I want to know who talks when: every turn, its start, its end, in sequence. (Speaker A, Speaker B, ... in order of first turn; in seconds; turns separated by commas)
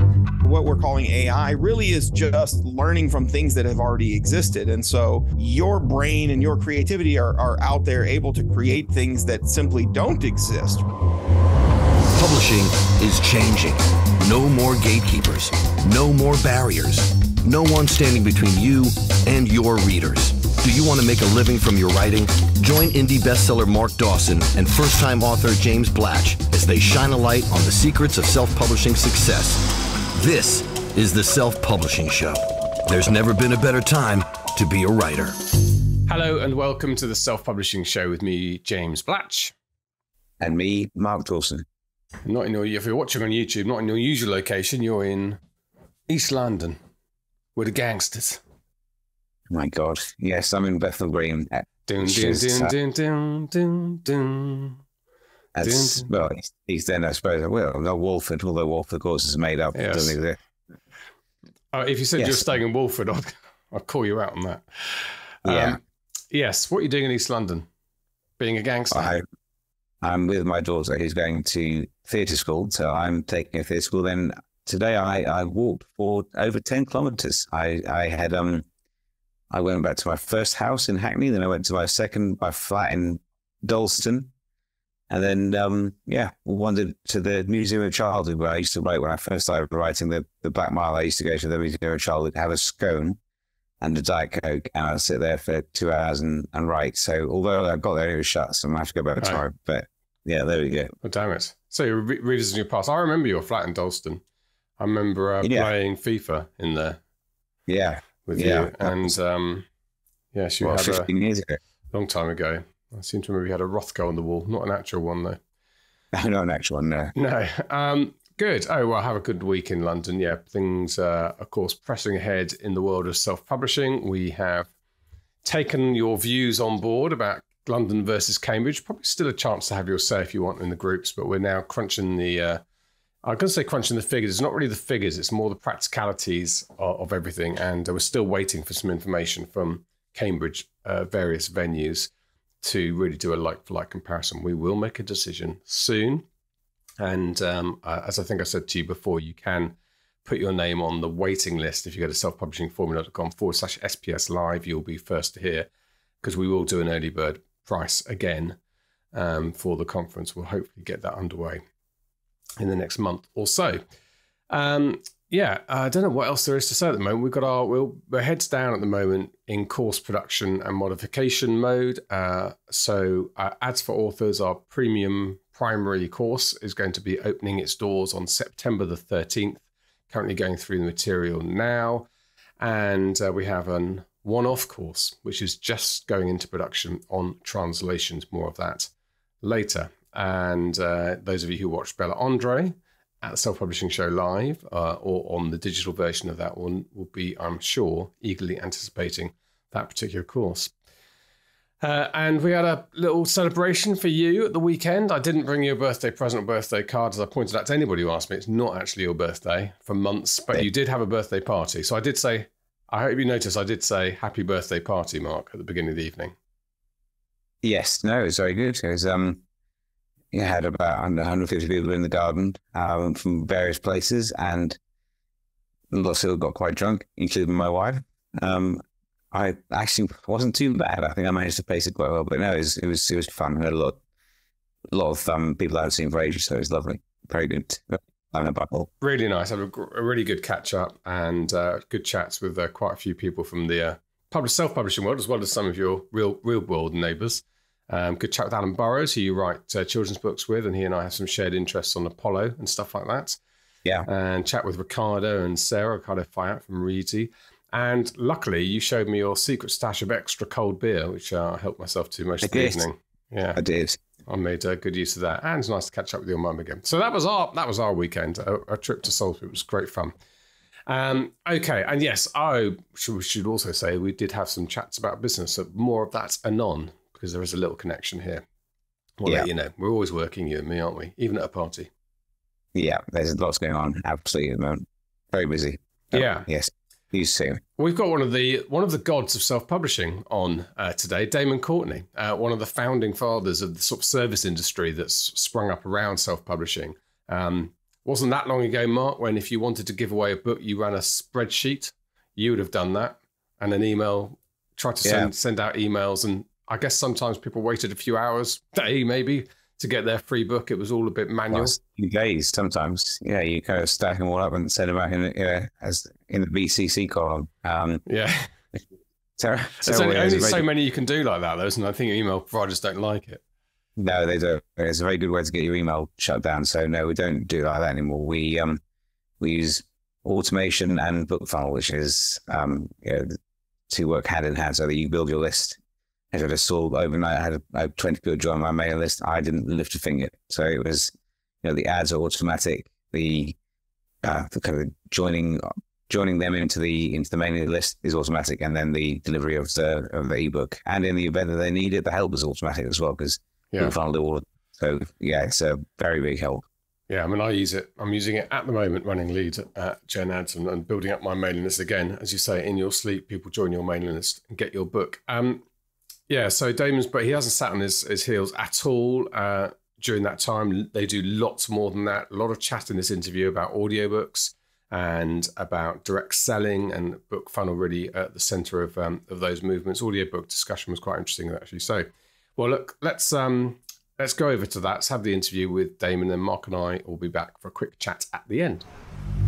Speaker A: 0.4-10.8, Speaker B: 12.2-35.4, Speaker C: 36.1-39.5, Speaker D: 40.4-41.6, Speaker C: 42.2-45.4, Speaker C: 46.1-46.8, Speaker C: 47.5-48.4, Speaker D: 49.5-52.7, Speaker C: 51.9-54.8, Speaker D: 55.5-60.4, Speaker C: 55.6-56.1, Speaker C: 59.7-60.2, Speaker C: 61.7-65.8, Speaker D: 62.2-62.5, Speaker D: 65.4-65.8, Speaker C: 66.3-67.7, Speaker C: 68.4-69.2, Speaker D: 68.9-69.2, Speaker D: 70.0-78.7, Speaker D: 79.5-84.3, Speaker D: 85.1-93.2, Speaker D: 93.8-100.9, Speaker C: 101.0-104.2, Speaker C: 104.8-107.0, Speaker D: 105.4-105.7, Speaker D: 107.7-109.1, Speaker C: 108.2-109.7, Speaker C: 110.3-111.1, Speaker D: 110.6-111.6, Speaker C: 111.9-115.4, Speaker D: 116.1-117.1, Speaker C: 117.2-124.7, Speaker C: 125.4-132.6, Speaker C: 133.2-142.1, Speaker C: 142.6-146.2, Speaker C: 147.0-155.7, Speaker C: 156.2-158.6, Speaker C: 159.1-161.6, Speaker C: 162.6-163.8, Speaker C: 164.5-182.1, Speaker C: 182.6-188.9, Speaker C: 189.4-200.7, Speaker C: 201.8-216.3, Speaker D: 217.6-219.4, Speaker D: 220.3-224.8, Speaker D: 225.9-234.0, Speaker D: 234.9-238.9, Speaker C: 239.0-253.4, Speaker C: 254.1-263.6, Speaker D: 262.4-262.9, Speaker D: 263.6-264.0, Speaker C: 264.2-270.1, Speaker C: 270.9-278.4, Speaker C: 279.2-281.9, Speaker D: 282.7-287.6, Speaker C: 286.1-286.5, Speaker C: 287.8-311.8, Speaker D: 305.0-305.3, Speaker D: 311.5-318.0, Speaker C: 318.1-318.5, Speaker D: 319.4-320.7, Speaker C: 319.8-323.4, Speaker D: 324.0-328.8, Speaker D: 329.4-333.4, Speaker D: 333.9-335.8, Speaker D: 336.3-341.1, Speaker D: 341.6-343.6, Speaker D: 344.2-356.7, Speaker C: 357.1-365.6, Speaker C: 366.3-388.9